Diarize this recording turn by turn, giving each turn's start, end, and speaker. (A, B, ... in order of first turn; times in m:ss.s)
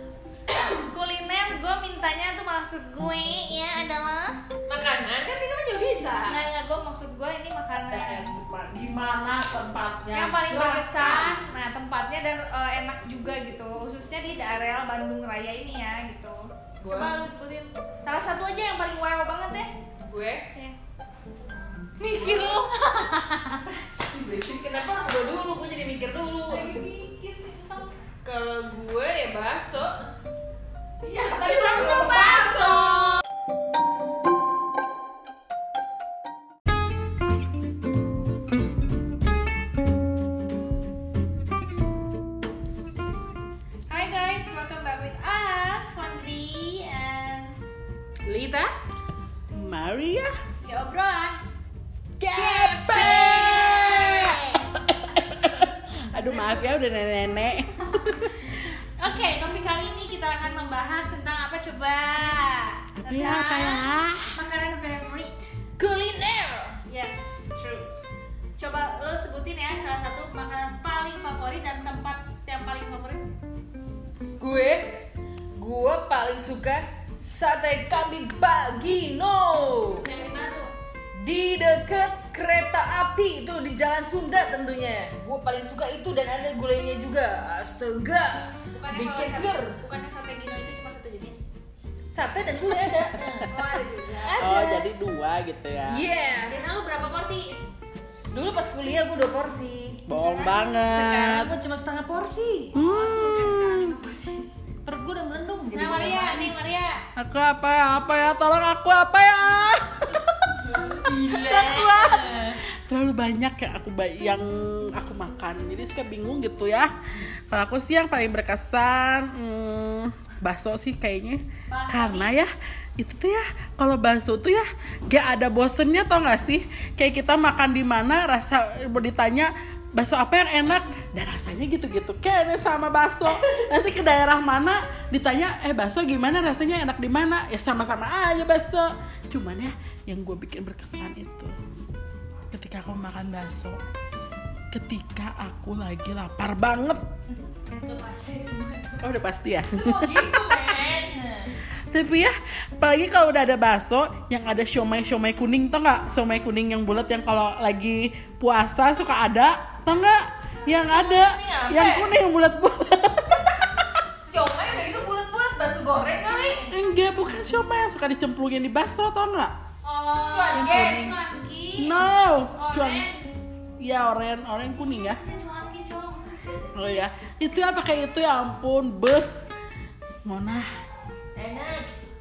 0:00.8-0:04.4 A
0:04.7-0:06.4 B
0:06.2-0:08.3 A
0:07.9-0:11.4 C
0:10.1-0:19.7 A
0:16.8-0:17.2 B
0:20.1-0:20.4 B
0:22.0-0:23.7 A
0:22.1-0:22.7 B
0:23.7-0:24.9 C
0:24.5-0:26.7 B
0:26.5-0:27.9 A
0:28.2-0:29.9 B
0:31.0-0:33.2 C
0:31.3-0:33.2 A
0:43.9-0:47.6 A
0:48.2-0:48.7 B
0:49.5-0:50.3 C
0:50.6-0:51.4 A
0:52.2-0:58.5 C
0:52.3-0:53.5 B
0:53.2-0:54.7 A
0:59.0-1:05.5 A
1:03.0-1:04.4 C
1:05.8-1:06.8 B
1:06.8-1:07.9 A
1:08.6-1:13.2 A
1:14.4-1:20.1 B
1:20.0-1:20.7 A
1:21.2-1:29.8 B
1:28.7-1:31.4 A
1:32.1-1:33.6 B
1:33.4-1:34.5 A
1:34.2-1:34.9 B
1:34.4-1:36.0 C
1:35.9-1:36.6 B
1:36.2-1:37.6 A
1:38.3-1:40.0 B
1:40.1-1:41.5 C
1:40.1-1:40.6 A
1:40.7-1:42.8 B
1:42.7-1:44.0 C
1:42.7-1:44.5 A
1:44.8-1:46.5 B
1:45.7-1:47.0 A
1:47.2-1:50.5 C
1:50.7-1:52.6 B
1:51.2-1:56.9 C
1:57.5-2:21.5 C
2:01.7-2:02.4 A
2:22.5-2:23.8 C
2:24.7-2:27.0 C
2:27.6-2:29.0 A
2:29.0-2:30.3 C
2:29.7-2:31.5 B
2:31.9-2:43.6 C
2:40.6-2:42.1 B
2:44.2-2:46.7 B
2:46.7-2:49.5 C
2:49.8-2:53.4 A
2:50.3-2:51.0 B
2:50.5-2:51.2 C
2:51.8-2:53.1 C
2:53.8-2:55.2 C
2:54.8-2:56.3 A
2:56.7-2:59.3 C
3:00.2-3:00.7 C
3:01.3-3:01.9 B